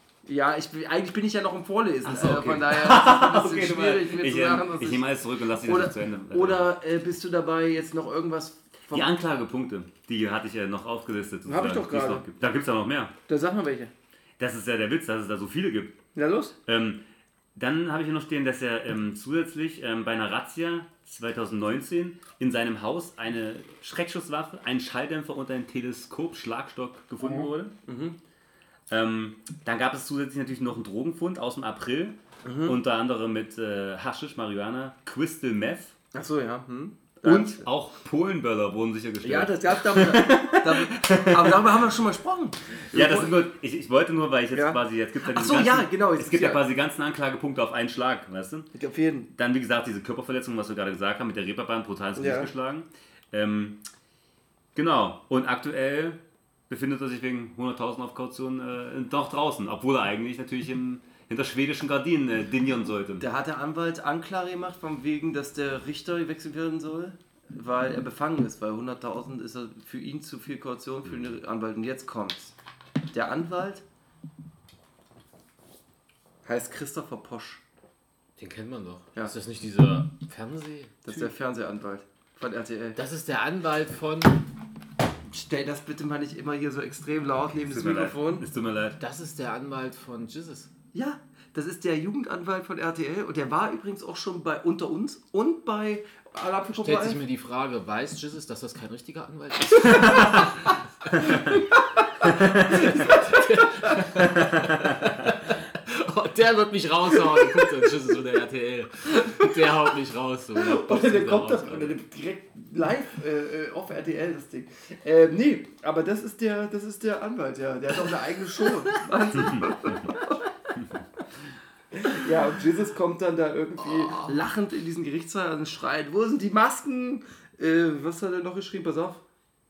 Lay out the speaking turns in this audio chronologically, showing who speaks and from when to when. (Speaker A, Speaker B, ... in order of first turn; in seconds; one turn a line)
Speaker A: 0.3-5.1
Speaker B: 2.0-6.7
Speaker A: 5.6-9.1
Speaker B: 8.9-13.1
Speaker A: 11.5-12.3
Speaker A: 13.3-13.9
Speaker B: 14.4-16.0
Speaker A: 16.1-16.5
Speaker B: 16.7-17.0
Speaker B: 17.6-27.7
Speaker A: 27.2-28.2
Speaker B: 28.9-36.0
Speaker A: 32.4-32.8
Speaker A: 36.1-37.7
Speaker B: 37.2-41.7
Speaker A: 39.2-43.4
Speaker B: 42.9-48.7
Speaker A: 44.5-46.6
Speaker A: 48.7-49.3
Speaker B: 49.3-53.8
Speaker A: 52.2-52.5
Speaker B: 54.8-63.2
Speaker A: 63.2-72.5
Speaker A: 73.1-73.8
Speaker A: 76.5-77.6
Speaker C: 78.4-81.3
Speaker A: 81.0-83.0
Speaker C: 83.0-84.4
Speaker A: 85.3-88.5
Speaker B: 87.7-89.0
Speaker C: 89.0-90.7
Speaker A: 90.9-97.2
Speaker C: 96.7-101.6
Speaker A: 101.3-101.6
Speaker A: 102.2-104.1
Speaker C: 102.5-112.0
Speaker A: 109.1-109.6
Speaker A: 110.6-120.5
Speaker A: 121.9-129.2